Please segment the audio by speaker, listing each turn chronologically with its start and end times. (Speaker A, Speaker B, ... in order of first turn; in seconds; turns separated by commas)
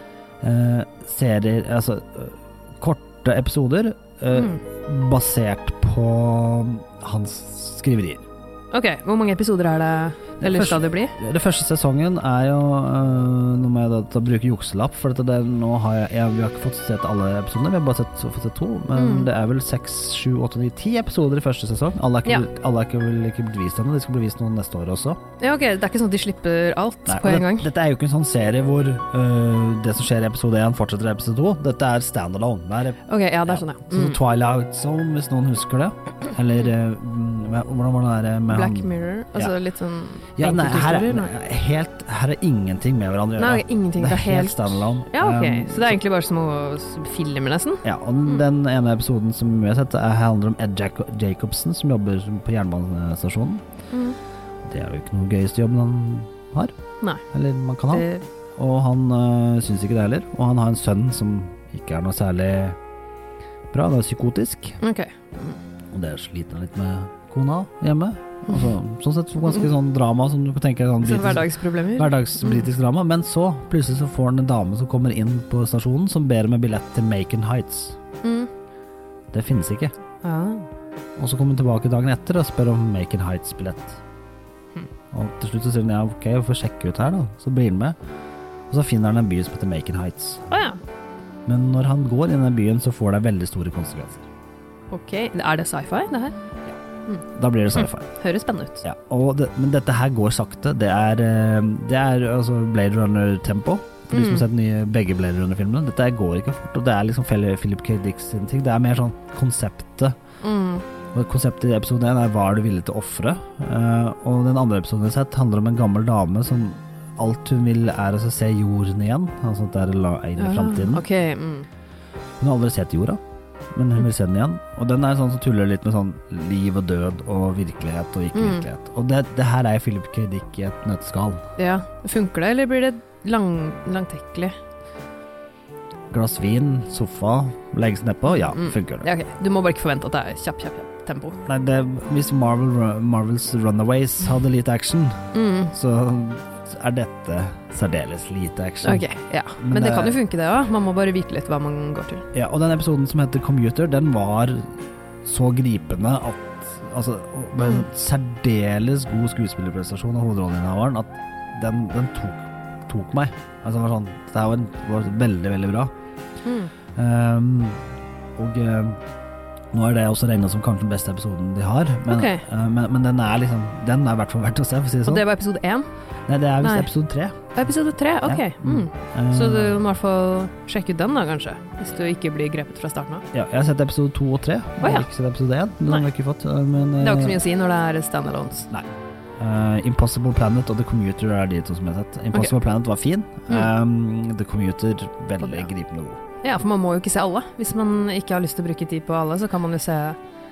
Speaker A: 0.4-8.2, Speaker B: 4.3-4.6, Speaker B: 8.7-11.2, Speaker A: 10.4-25.2, Speaker B: 18.9-19.3, Speaker B: 25.4-27.7, Speaker A: 27.1-39.5, Speaker B: 33.1-34.2, Speaker B: 38.5-41.3, Speaker A: 40.4-46.0, Speaker B: 43.4-48.4, Speaker A: 47.8-53.6, Speaker B: 53.9-54.2, Speaker A: 54.6-56.8, Speaker A: 57.3-62.8, Speaker B: 57.9-58.2, Speaker A: 63.7-64.8, Speaker B: 64.8-65.6, Speaker A: 65.9-78.0, Speaker B: 71.0-72.6, Speaker B: 78.2-78.5, Speaker A: 79.3-79.9, Speaker B: 80.2-80.7, Speaker A: 81.2-84.0, Speaker A: 85.1-88.0, Speaker A: 88.7-90.5, Speaker B: 90.5-90.8, Speaker A: 91.5-94.2, Speaker B: 94.9-96.4, Speaker A: 96.7-98.1, Speaker B: 97.8-98.8, Speaker A: 98.8-110.2, Speaker B: 104.1-104.5, Speaker B: 110.4-110.8, Speaker A: 111.1-121.0, Speaker B: 120.4-121.7, Speaker A: 122.4-123.2, Speaker A: 123.7-131.4, Speaker B: 128.3-128.7, Speaker B: 131.6-134.5, Speaker A: 136.1-139.1, Speaker B: 138.3-141.4, Speaker A: 141.4-149.1, Speaker B: 145.3-145.7, Speaker B: 148.8-152.2, Speaker A: 149.6-150.2, Speaker A: 152.3-165.9, Speaker B: 157.6-157.8, Speaker B: 166.4-166.7, Speaker A: 166.9-167.8, Speaker A: 168.4-169.0, Speaker A: 169.7-175.2, Speaker B: 172.1-172.4, Speaker B: 175.1-175.8, Speaker A: 176.3-177.4, Speaker B: 176.6-176.9, Speaker B: 177.4-183.2, Speaker A: 178.2-179.8, Speaker A: 183.3-187.4, Speaker B: 184.8-185.1, Speaker B: 187.0-188.7, Speaker A: 188.7-196.2, Speaker B: 195.4-195.7, Speaker B: 196.4-200.2